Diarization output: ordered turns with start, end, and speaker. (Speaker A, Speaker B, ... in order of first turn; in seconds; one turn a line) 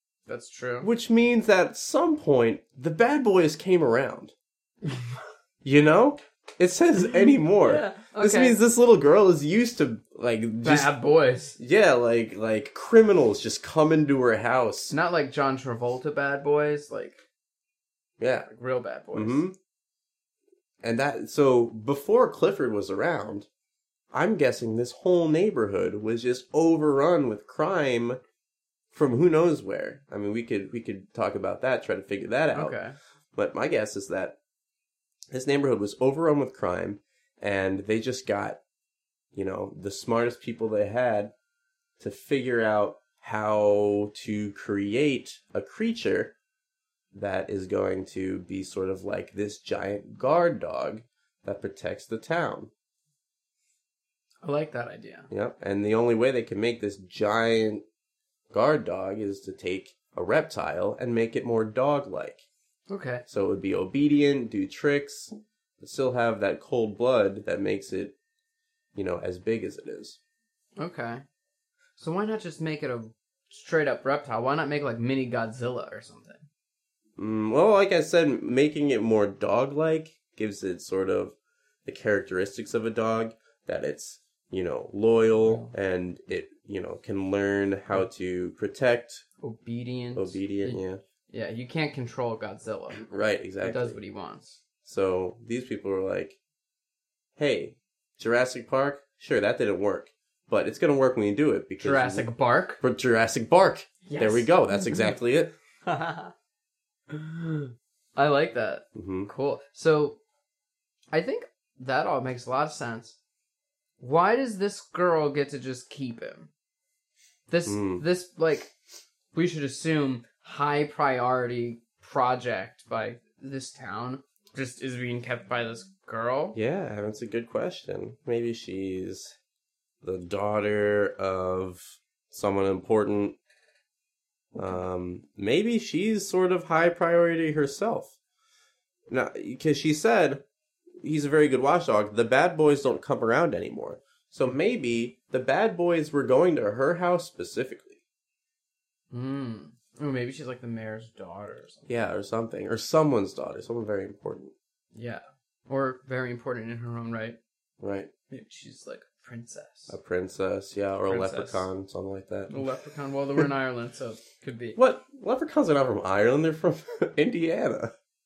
Speaker A: 0.3-0.9
Speaker B: 0.8-4.3
Speaker B: 5.6-10.9
Speaker A: 7.6-8.6
Speaker A: 10.6-11.6
Speaker B: 11.6-14.9
Speaker A: 14.9-17.2
Speaker B: 18.2-18.5
Speaker A: 18.5-19.4
Speaker B: 19.1-19.6
Speaker B: 20.8-23.5
Speaker B: 24.1-28.2
Speaker B: 28.9-32.8
Speaker A: 32.5-33.0
Speaker B: 33.4-34.4
Speaker B: 35.3-38.6
Speaker B: 39.3-41.3
Speaker B: 42.0-46.3
Speaker B: 47.1-52.7
Speaker A: 54.4-55.3
Speaker B: 55.3-57.8
Speaker B: 58.5-62.5
Speaker A: 62.9-63.2
Speaker B: 63.3-68.2
Speaker B: 69.0-70.2
Speaker A: 70.8-71.2
Speaker A: 72.0-76.5
Speaker B: 77.2-89.2
Speaker A: 85.4-85.7
Speaker A: 89.4-93.0
Speaker B: 90.2-91.0
Speaker B: 93.0-94.0
Speaker A: 93.6-94.6
Speaker B: 94.8-96.4
Speaker B: 97.4-102.3
Speaker A: 101.8-102.8
Speaker B: 102.8-105.5
Speaker A: 104.1-105.1
Speaker A: 105.9-106.3
Speaker A: 107.1-110.2
Speaker B: 109.0-109.3
Speaker A: 111.1-113.2
Speaker A: 114.0-116.5
Speaker A: 117.5-118.7
Speaker B: 117.7-118.0
Speaker A: 119.3-126.6
Speaker B: 126.5-129.3
Speaker B: 130.0-133.4
Speaker B: 134.6-138.1
Speaker B: 139.1-140.4
Speaker B: 141.0-148.0
Speaker A: 149.1-151.9
Speaker B: 151.9-154.5
Speaker A: 154.9-157.4
Speaker B: 157.8-158.1
Speaker A: 158.3-160.0
Speaker B: 159.9-162.7
Speaker A: 161.1-161.7
Speaker A: 162.5-164.8
Speaker B: 164.8-167.9